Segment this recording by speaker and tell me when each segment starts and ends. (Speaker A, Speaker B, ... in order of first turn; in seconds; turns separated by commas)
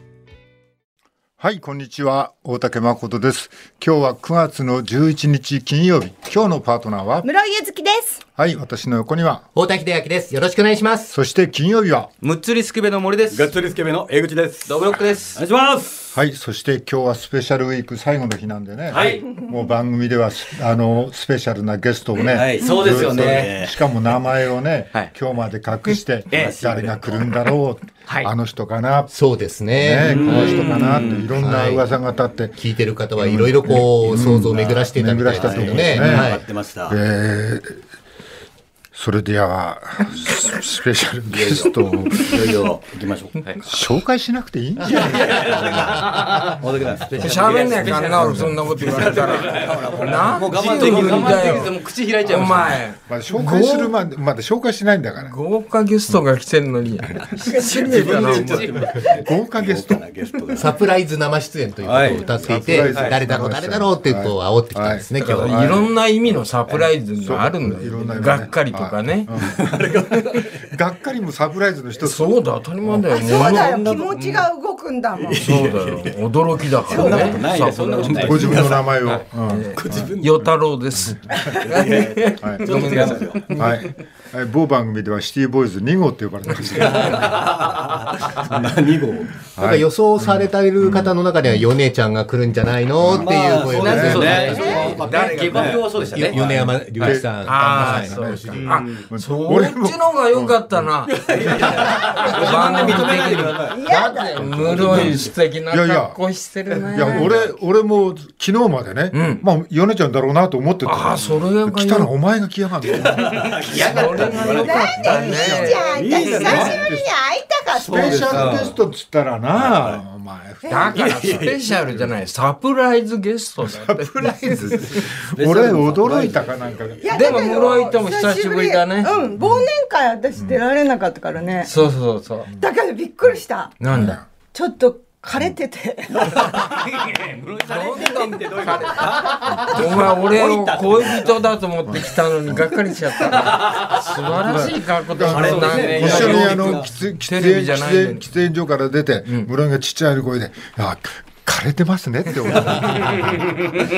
Speaker A: 1.4-7.3, Speaker B: 7.2-8.2, Speaker A: 8.3-9.4, Speaker C: 9.5-11.1, Speaker A: 11.1-12.1, Speaker D: 12.2-13.5, Speaker E: 13.3-16.1, Speaker D: 14.7-15.4, Speaker A: 16.1-29.1, Speaker D: 18.9-19.3, Speaker E: 18.9-19.2, Speaker E: 22.1-23.9, Speaker D: 22.2-23.6, Speaker D: 26.3-26.6, Speaker E: 26.3-27.1, Speaker D: 28.1-28.3, Speaker C: 29.1-31.8, Speaker A: 29.7-32.6, Speaker E: 30.0-31.2, Speaker D: 30.1-31.3, Speaker C: 32.5-36.4, Speaker A: 33.2-37.8, Speaker E: 33.7-37.0, Speaker A: 38.9-42.5, Speaker E: 41.3-43.5, Speaker A: 43.6-45.5, Speaker E: 44.8-51.7, Speaker D: 45.0-52.8, Speaker F: 47.2-54.0, Speaker A: 48.1-48.8, Speaker A: 53.1-55.4, Speaker F: 55.2-58.9, Speaker E: 57.4-60.9, Speaker B: 57.5-58.4, Speaker D: 58.2-58.9, Speaker A: 59.2-60.0, Speaker C: 60.5-65.7, Speaker E: 61.8-63.2, Speaker A: 62.5-65.9, Speaker D: 62.8-63.2, Speaker F: 65.2-69.3, Speaker A: 67.1-69.6, Speaker E: 67.9-68.5, Speaker E: 69.3-70.7, Speaker A: 70.6-73.0, Speaker F: 72.0-74.5, Speaker B: 73.1-75.8, Speaker E: 73.2-73.8, Speaker E: 75.2-80.4, Speaker F: 75.3-78.4, Speaker B: 76.9-77.4, Speaker D: 77.4-79.2, Speaker A: 78.2-81.6, Speaker F: 79.5-83.8, Speaker E: 81.5-83.8, Speaker A: 82.4-82.9, Speaker A: 83.5-87.5, Speaker E: 86.8-89.5, Speaker A: 89.5-91.7, Speaker C: 89.6-95.0, Speaker A: 93.0-94.3, Speaker E: 93.1-96.8, Speaker D: 93.6-96.4, Speaker B: 94.5-95.0, Speaker F: 94.5-95.8, Speaker C: 96.0-98.8, Speaker A: 96.4-100.6, Speaker F: 97.4-101.2, Speaker D: 98.6-99.0, Speaker E: 101.1-105.3, Speaker D: 101.6-103.7, Speaker F: 101.8-107.3, Speaker B: 103.7-104.5, Speaker A: 104.4-106.2, Speaker A: 106.9-114.3, Speaker E: 107.0-107.4, Speaker F: 109.1-109.4, Speaker F: 110.8-112.1, Speaker E: 112.9-116.9, Speaker D: 113.6-114.6, Speaker F: 113.7-115.9, Speaker B: 114.6-118.7, Speaker A: 115.0-115.8, Speaker D: 116.2-116.5, Speaker A: 116.4-117.1, Speaker E: 117.7-118.8, Speaker A: 117.9-121.6, Speaker E: 119.5-120.0, Speaker B: 120.6-120.9, Speaker F: 120.7-125.1, Speaker E: 120.9-122.0, Speaker A: 123.6-127.0, Speaker E: 124.6-128.0, Speaker B: 127.0-131.7, Speaker F: 127.1-129.1, Speaker A: 129.4-129.7, Speaker A: 130.3-130.6, Speaker F: 131.6-132.5, Speaker B: 132.6-133.7, Speaker F: 133.8-134.2, Speaker A: 133.9-134.2, Speaker B: 134.5-136.5, Speaker E: 136.1-141.5, Speaker D: 136.4-138.4, Speaker F: 137.7-148.3, Speaker A: 139.5-139.8, Speaker A: 141.9-142.7, Speaker E: 142.8-144.6, Speaker D: 143.7-143.9, Speaker A: 144.3-153.5, Speaker E: 145.2-146.9, Speaker D: 145.6-146.8